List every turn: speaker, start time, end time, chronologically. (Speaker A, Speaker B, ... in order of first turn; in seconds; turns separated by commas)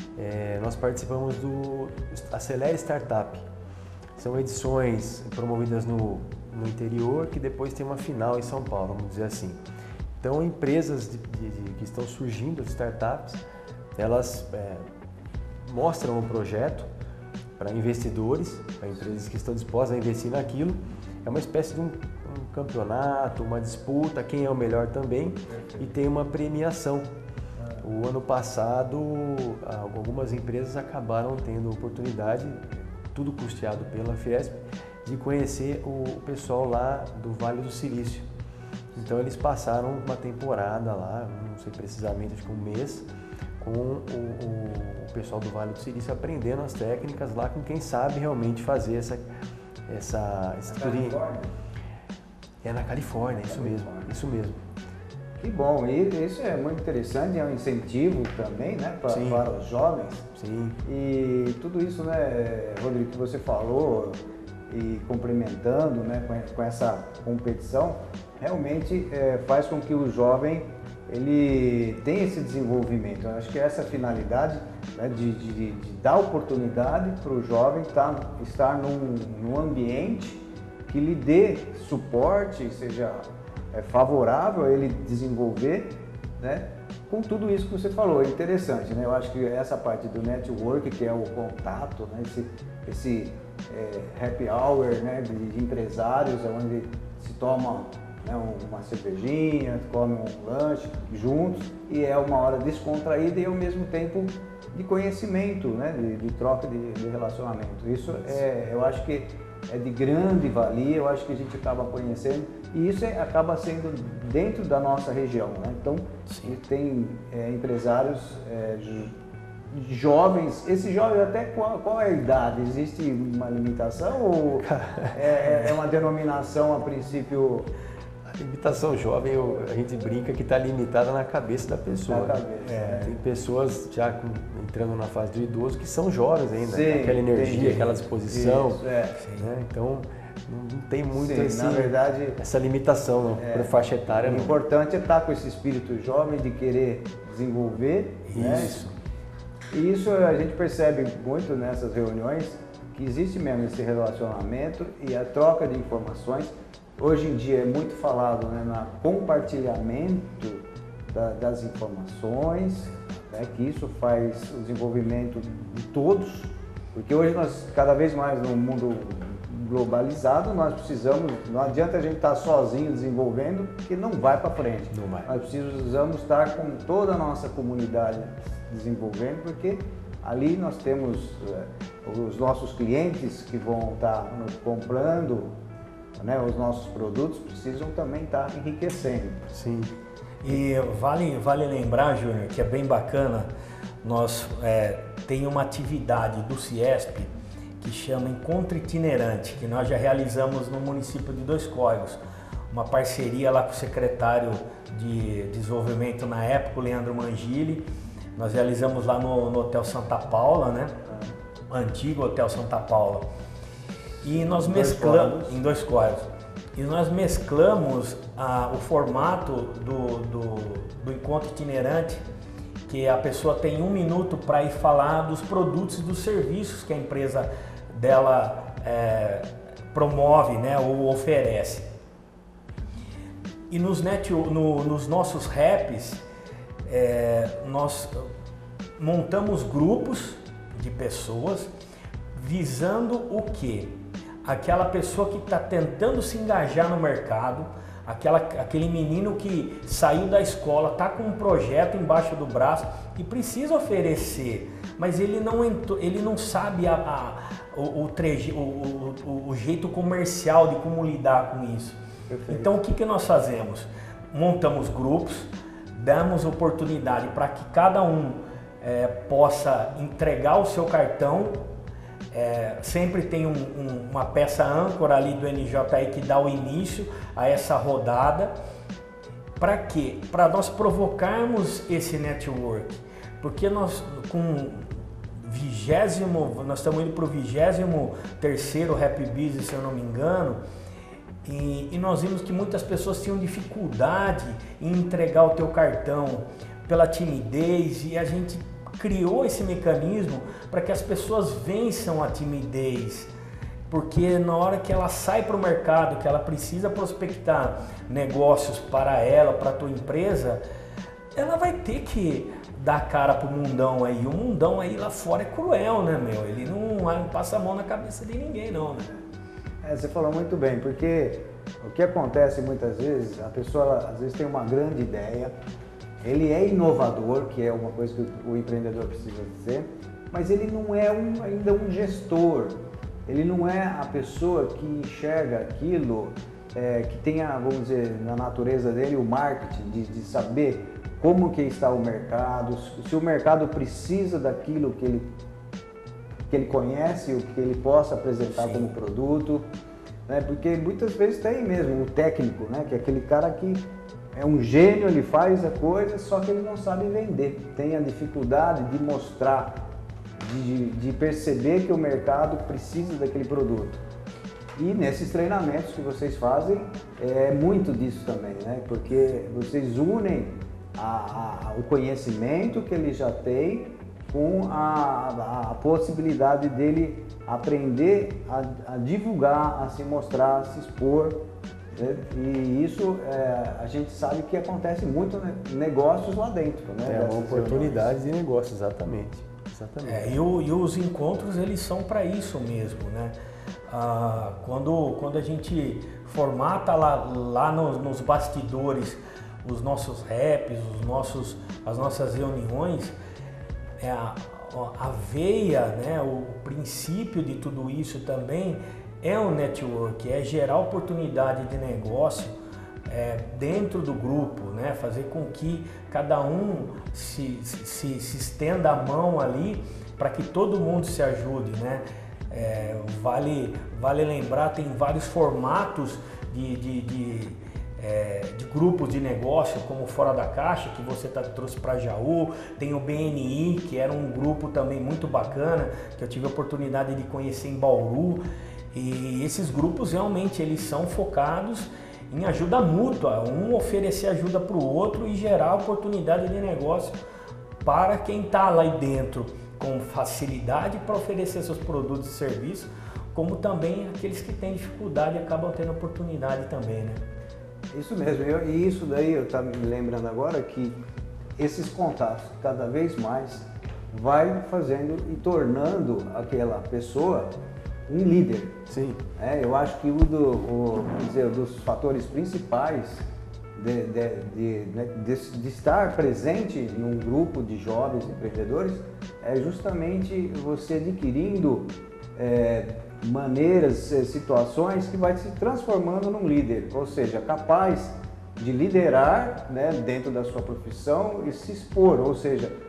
Speaker A: 0.1-3.4, Speaker A: 4.2-9.6, Speaker A: 10.2-13.4, Speaker A: 13.9-14.8, Speaker A: 15.7-16.9, Speaker A: 17.6-27.1, Speaker A: 27.8-38.3, Speaker A: 38.9-43.0, Speaker A: 43.6-49.2, Speaker A: 49.9-51.2, Speaker B: 50.7-51.5, Speaker A: 52.6-54.6, Speaker B: 53.5-54.1, Speaker B: 55.4-60.3, Speaker A: 59.1-59.4, Speaker A: 60.3-60.8, Speaker B: 60.8-64.2, Speaker B: 64.7-119.1, Speaker C: 116.3-116.5, Speaker B: 119.7-127.7, Speaker A: 124.6-125.2, Speaker A: 128.3-132.4, Speaker B: 132.1-133.2, Speaker C: 132.7-133.0, Speaker A: 132.9-138.8, Speaker B: 136.6-139.2, Speaker C: 139.1-139.5, Speaker A: 139.4-144.6, Speaker B: 141.1-142.4, Speaker B: 143.4-148.8, Speaker A: 148.3-148.9, Speaker B: 149.7-185.5, Speaker A: 174.9-175.3, Speaker B: 186.2-189.5, Speaker A: 189.5-189.9, Speaker C: 190.4-193.5, Speaker C: 194.0-210.9, Speaker C: 211.7-213.3, Speaker C: 214.2-222.2, Speaker B: 214.2-215.6, Speaker C: 222.9-231.9, Speaker C: 233.7-236.2, Speaker C: 236.8-238.2, Speaker C: 239.0-241.7, Speaker C: 242.3-271.6, Speaker B: 262.3-262.7, Speaker C: 272.3-278.5, Speaker C: 279.6-290.6, Speaker C: 291.4-303.3, Speaker C: 303.9-310.6, Speaker C: 311.3-319.1, Speaker B: 319.8-325.5, Speaker B: 326.2-345.3, Speaker B: 346.5-349.6, Speaker C: 348.5-348.9, Speaker B: 350.3-359.8, Speaker B: 360.4-364.0, Speaker B: 364.8-381.4, Speaker B: 381.9-388.1, Speaker A: 387.0-390.4, Speaker C: 390.0-393.3, Speaker C: 393.9-403.1, Speaker C: 404.0-412.5, Speaker C: 413.1-438.4, Speaker C: 438.9-447.1, Speaker C: 447.8-457.2, Speaker B: 457.9-461.0, Speaker B: 461.6-467.6, Speaker B: 468.1-468.8, Speaker A: 468.9-469.2, Speaker B: 469.4-473.2, Speaker B: 473.8-492.7